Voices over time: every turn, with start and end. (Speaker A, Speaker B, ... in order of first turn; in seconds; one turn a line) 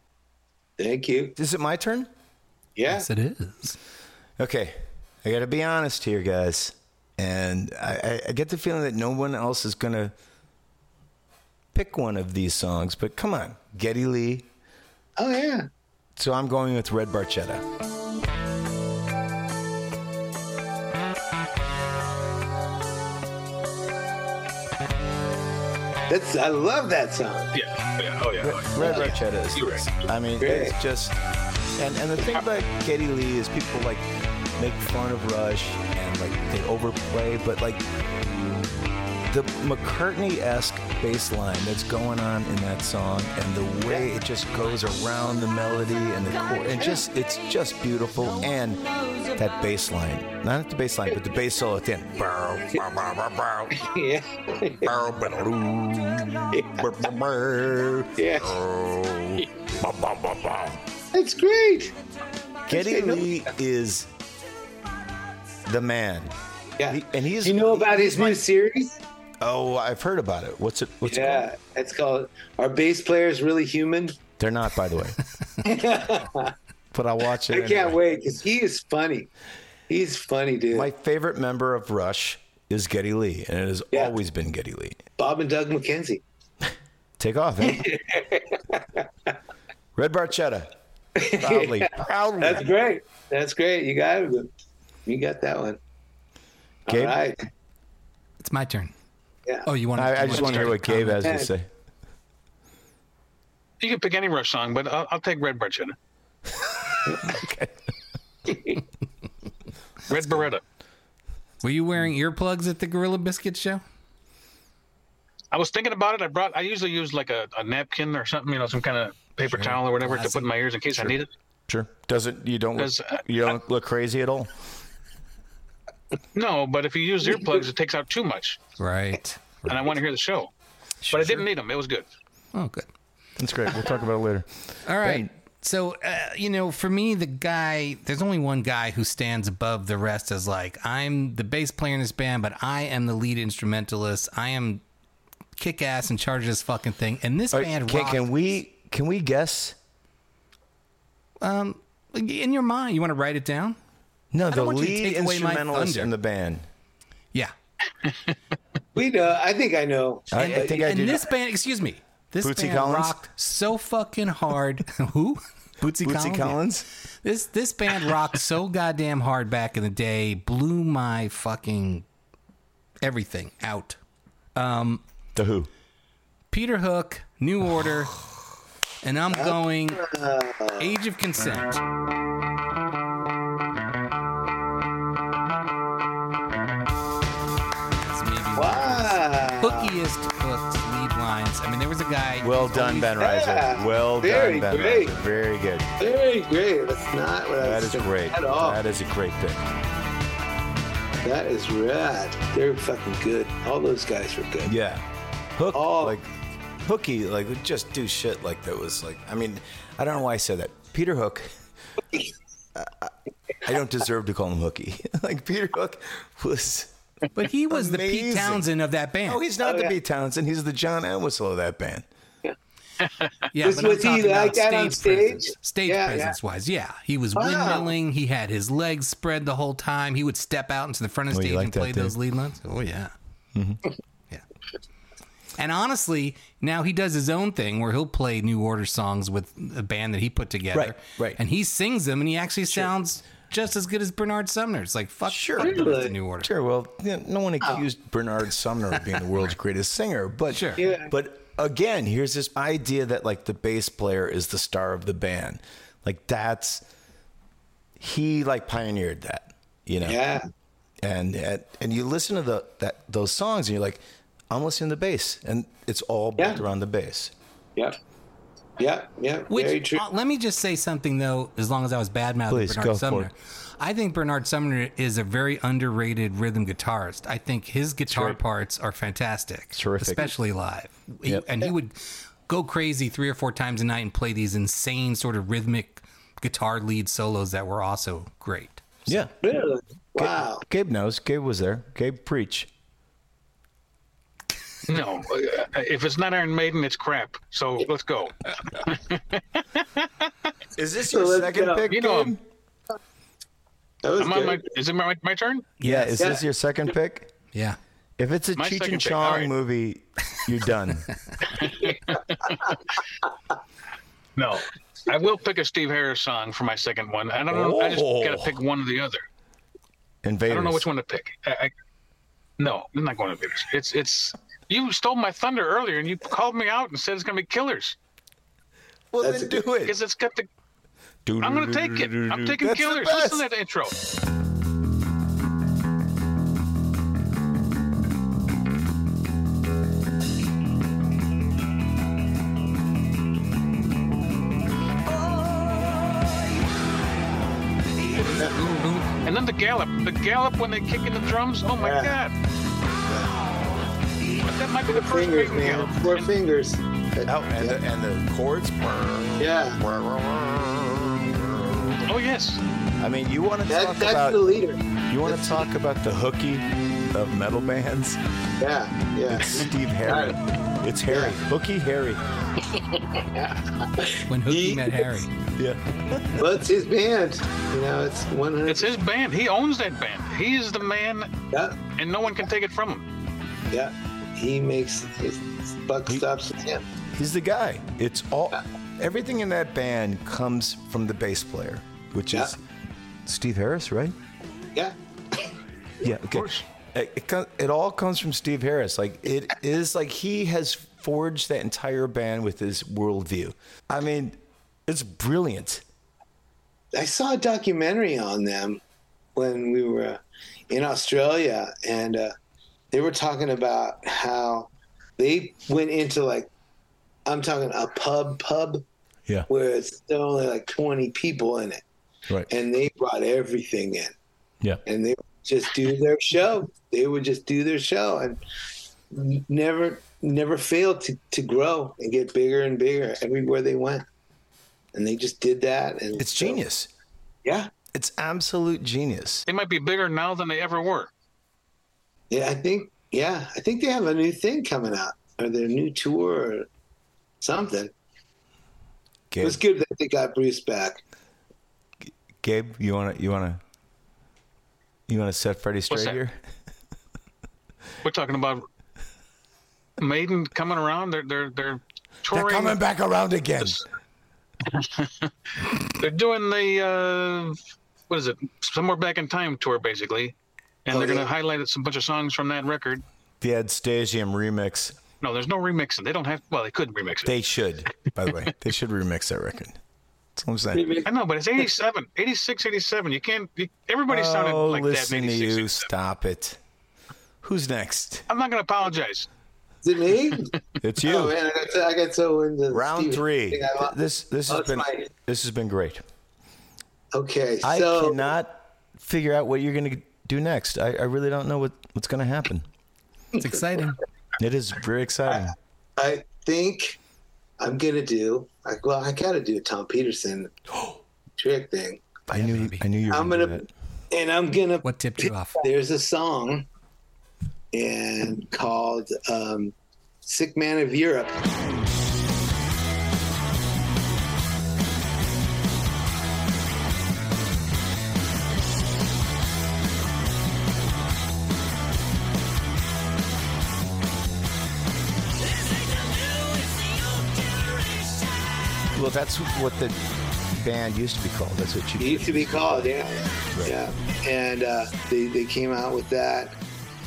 Speaker A: 0.8-1.3
Speaker B: 1.4-2.1
Speaker A: 2.8-3.1
Speaker C: 2.9-3.8
Speaker B: 4.4-10.1
Speaker B: 11.7-14.5
Speaker A: 15.2-15.7
Speaker B: 16.2-17.6
Speaker A: 26.1-27.5
Speaker D: 27.5-29.9
Speaker B: 28.4-31.2
Speaker A: 28.8-29.2
Speaker A: 30.4-30.7
Speaker B: 31.8-34.1
Speaker B: 34.6-37.8
Speaker B: 39.3-53.8
Speaker A: 46.8-47.0
Speaker A: 53.8-54.9
Speaker B: 54.8-60.8
Speaker A: 56.5-56.9
Speaker A: 58.2-58.5
Speaker A: 61.1-61.9
Speaker B: 62.7-64.1
Speaker A: 62.7-63.4
Speaker B: 65.7-66.3
Speaker A: 66.8-69.0
Speaker B: 66.9-68.4
Speaker B: 69.4-71.5
Speaker A: 71.0-74.2
Speaker B: 74.4-75.2
Speaker A: 75.6-76.5
Speaker B: 76.9-78.0
Speaker A: 77.5-79.3
Speaker A: 79.9-80.9
Speaker B: 80.7-85.0
Speaker A: 85.2-86.2
Speaker B: 87.2-87.9
Speaker A: 87.7-89.3
Speaker B: 90.0-90.7
Speaker A: 91.2-94.5
Speaker B: 91.3-92.7
Speaker A: 95.1-95.8
Speaker A: 96.9-97.4
Speaker B: 96.9-97.2
Speaker C: 98.4-98.9
Speaker C: 99.7-101.2
Speaker B: 100.0-101.7
Speaker A: 100.3-100.6
Speaker A: 101.2-101.5
Speaker D: 103.8-106.0
Speaker B: 107.2-107.7
Speaker A: 108.5-108.8
Speaker D: 110.1-110.6
Speaker C: 111.6-113.8
Speaker D: 115.5-121.3
Speaker C: 119.4-120.5
Speaker B: 121.7-124.5
Speaker D: 122.8-123.6
Speaker D: 126.3-128.6
Speaker C: 128.8-129.8
Speaker D: 129.7-130.5
Speaker B: 131.0-131.5
Speaker D: 131.1-132.1
Speaker C: 132.5-132.9
Speaker B: 133.4-135.3
Speaker C: 134.9-144.8
Speaker C: 145.6-148.2
Speaker B: 147.5-149.8
Speaker C: 151.4-153.8
Speaker B: 154.3-156.7
Speaker C: 154.5-156.1
Speaker D: 158.1-158.3
Speaker A: 158.9-161.1
Speaker B: 160.3-161.3
Speaker C: 160.3-166.6
Speaker B: 162.4-163.2
Speaker B: 165.8-166.9
Speaker C: 167.2-172.1
Speaker C: 173.0-174.0
Speaker C: 174.6-175.0
Speaker B: 175.3-175.7
Speaker C: 176.5-178.2
Speaker C: 179.0-180.0
Speaker A: 179.3-180.9
Speaker C: 180.8-181.8
Speaker C: 188.0-193.1
Speaker A: 188.6-189.9
Speaker B: 192.4-195.9
Speaker A: 193.2-195.1
Speaker A: 196.0-198.8
Speaker B: 197.6-199.6
Speaker A: 201.2-204.7
Speaker B: 204.6-206.3
Speaker A: 205.7-206.2
Speaker B: 206.8-211.5
Speaker B: 212.8-216.9
Speaker C: 217.3-219.4
Speaker B: 217.7-218.7
Speaker B: 219.3-222.1
Speaker A: 219.6-219.9
Speaker D: 223.0-223.3
Speaker C: 223.5-233.1
Speaker A: 223.6-226.4
Speaker A: 227.4-227.9
Speaker B: 231.3-232.2
Speaker B: 233.6-233.8
Speaker C: 235.6-246.5
Speaker B: 240.7-241.4
Speaker B: 245.3-256.9
Speaker A: 245.6-246.1
Speaker C: 250.5-250.8
Speaker A: 250.8-251.1
Speaker B: 258.0-260.2
Speaker A: 260.0-260.5
Speaker B: 261.0-267.3
Speaker A: 268.8-270.0
Speaker C: 269.5-288.9
Speaker B: 272.5-273.3
Speaker B: 278.1-278.4
Speaker B: 279.8-280.3
Speaker B: 289.1-289.3
Speaker A: 289.4-290.6
Speaker B: 290.2-292.7
Speaker D: 294.9-300.3
Speaker B: 300.8-302.4
Speaker A: 301.1-301.9
Speaker D: 301.9-302.3
Speaker A: 304.0-304.6
Speaker D: 304.2-305.7
Speaker C: 305.8-306.4
Speaker B: 305.8-307.3
Speaker C: 307.5-307.8
Speaker B: 308.2-311.1
Speaker D: 308.6-309.5
Speaker D: 311.6-312.6
Speaker D: 314.4-319.2
Speaker B: 317.5-318.5
Speaker B: 320.2-320.9
Speaker D: 320.5-321.7
Speaker D: 322.6-328.0
Speaker B: 329.1-330.0
Speaker A: 329.2-329.6
Speaker D: 329.9-330.5
Speaker B: 331.3-333.4
Speaker D: 331.4-334.0
Speaker A: 348.4-348.7
Speaker D: 349.1-352.3
Speaker A: 351.8-352.2
Speaker A: 353.1-353.3
Speaker D: 354.4-356.3
Speaker A: 354.9-357.8
Speaker B: 357.3-362.1
Speaker A: 359.4-359.8
Speaker D: 362.1-362.6
Speaker B: 363.0-364.6
Speaker A: 363.7-365.6
Speaker B: 365.1-368.2
Speaker A: 368.6-370.4
Speaker B: 369.3-372.2
Speaker A: 371.1-371.4
Speaker A: 372.8-375.1
Speaker C: 374.3-375.3
Speaker B: 375.6-376.4
Speaker A: 376.4-379.0
Speaker D: 378.7-381.3
Speaker A: 381.5-381.8
Speaker D: 382.0-383.1
Speaker A: 383.7-386.9
Speaker B: 387.1-392.6
Speaker B: 393.3-394.1
Speaker A: 394.8-395.5
Speaker B: 396.0-405.9
Speaker A: 406.9-408.8
Speaker A: 409.4-412.3
Speaker A: 412.9-416.5
Speaker A: 417.3-418.8
Speaker A: 419.5-421.8
Speaker A: 422.5-424.1
Speaker A: 424.9-428.4
Speaker A: 429.1-434.1
Speaker A: 434.9-436.6
Speaker B: 436.2-436.9
Speaker A: 437.4-437.7
Speaker B: 437.9-439.5
Speaker D: 439.5-441.1
Speaker A: 442.3-446.7
Speaker A: 447.4-447.9
Speaker B: 449.3-449.6
Speaker A: 449.4-451.0
Speaker B: 452.4-453.6
Speaker B: 455.1-456.4
Speaker D: 455.9-456.2
Speaker D: 458.0-458.6
Speaker D: 460.0-462.8
Speaker B: 462.3-463.8
Speaker D: 464.7-465.3
Speaker D: 465.9-467.6
Speaker D: 468.1-470.4
Speaker D: 470.9-473.0
Speaker A: 470.9-471.3
Speaker B: 473.4-475.0
Speaker D: 475.2-477.4
Speaker B: 477.2-479.8
Speaker B: 480.4-480.9
Speaker A: 480.7-481.1
Speaker D: 481.1-485.9
Speaker B: 484.1-486.6
Speaker B: 487.4-488.3
Speaker D: 488.3-489.3
Speaker A: 489.8-490.5
Speaker B: 490.8-491.4
Speaker A: 491.0-493.9
Speaker B: 492.7-496.0
Speaker A: 494.5-495.1
Speaker A: 497.1-498.3
Speaker B: 497.6-502.7
Speaker C: 503.4-504.0
Speaker B: 504.4-505.6
Speaker A: 506.0-507.0
Speaker A: 507.6-510.5
Speaker A: 511.4-512.2
Speaker B: 512.3-513.7
Speaker C: 512.3-512.9
Speaker A: 513.1-516.7
Speaker C: 514.8-515.7
Speaker A: 517.7-521.4
Speaker B: 538.9-543.0
Speaker A: 542.0-546.6